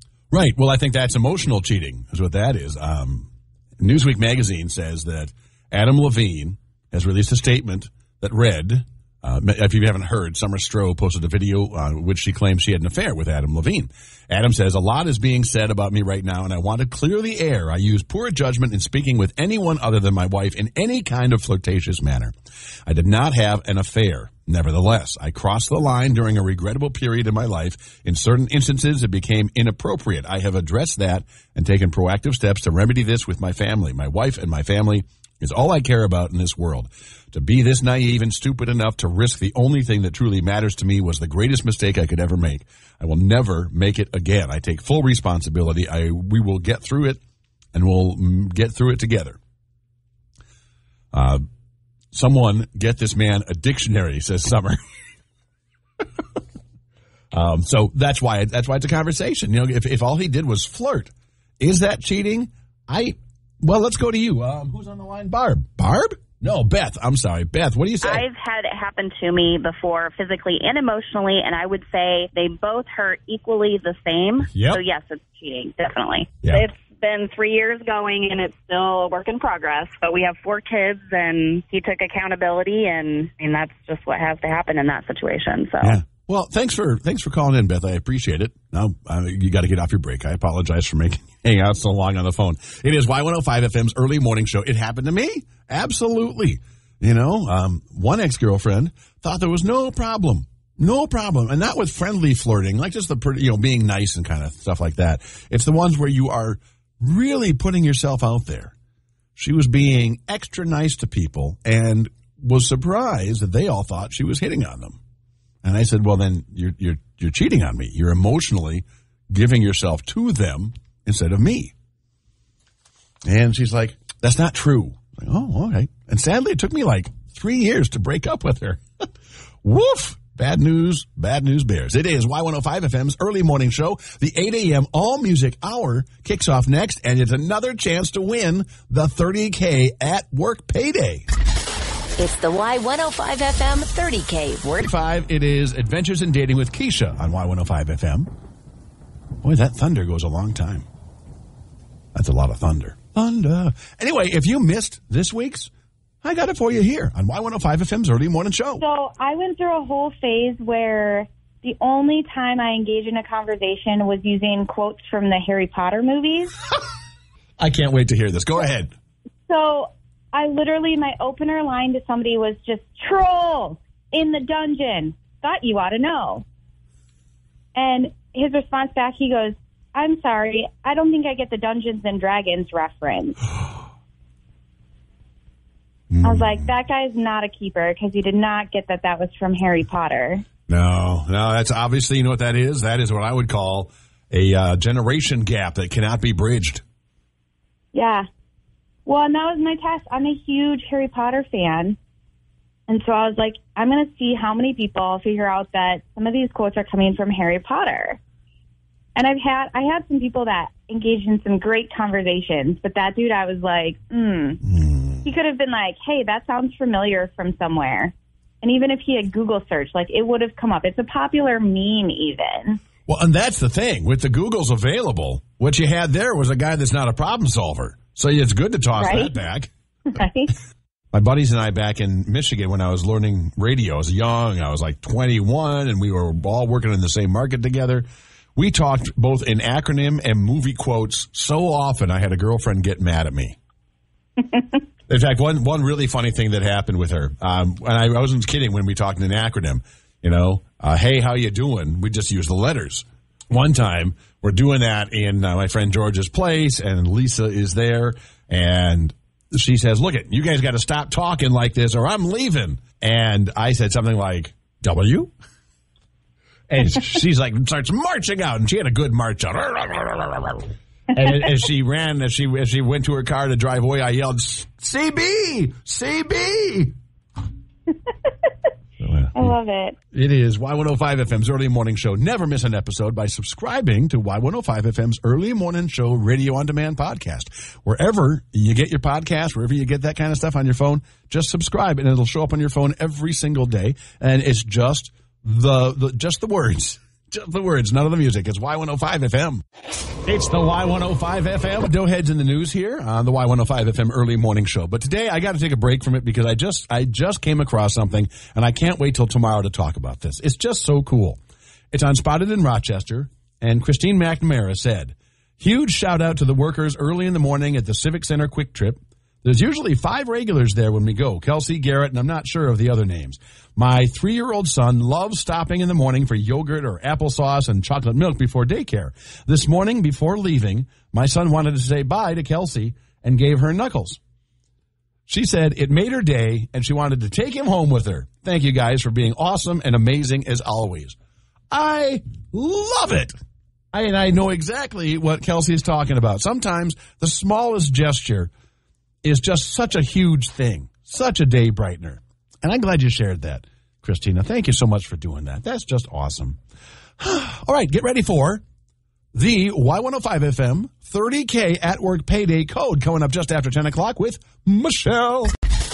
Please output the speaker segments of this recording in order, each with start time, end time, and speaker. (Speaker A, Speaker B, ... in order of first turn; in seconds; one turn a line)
Speaker A: 0.3-22.3
Speaker A: 22.9-47.2
Speaker A: 47.7-49.4
Speaker A: 51.1-51.4
Speaker A: 52.1-54.8
Speaker A: 57.3-68.2
Speaker B: 68.0-86.0
Speaker A: 74.5-74.8
Speaker A: 76.4-76.7
Speaker A: 85.8-108.7
Speaker A: 109.4-115.0
Speaker A: 115.6-121.7
Speaker A: 123.2-128.8
Speaker A: 129.6-141.3
Speaker C: 142.2-144.7
Speaker A: 144.7-148.3
Speaker A: 149.4-150.9
Speaker A: 152.1-155.7
Speaker A: 156.2-158.8
Speaker D: 158.8-166.6
Speaker A: 167.6-168.9
Speaker D: 169.5-176.4
Speaker D: 177.8-183.5
Speaker A: 186.1-186.7
Speaker D: 186.2-190.4
Speaker A: 190.7-196.8
Speaker D: 197.9-198.3
Speaker D: 199.1-202.0
Speaker D: 202.9-208.2
Speaker D: 209.2-214.6
Speaker A: 214.7-215.3
Speaker D: 215.2-222.8
Speaker A: 223.1-229.7
Speaker D: 228.9-229.3
Speaker D: 230.1-230.5
Speaker A: 231.1-243.6
Speaker A: 245.1-265.3
Speaker A: 266.7-276.9
Speaker A: 279.0-279.6
Speaker D: 279.4-280.0
Speaker A: 280.1-299.6
Speaker A: 300.2-311.4
Speaker A: 311.9-334.2
Speaker A: 335.3-341.2
Speaker A: 341.7-343.3
Speaker A: 343.9-348.5
Speaker A: 349.2-356.6
Speaker A: 357.2-358.6
Speaker A: 359.3-365.5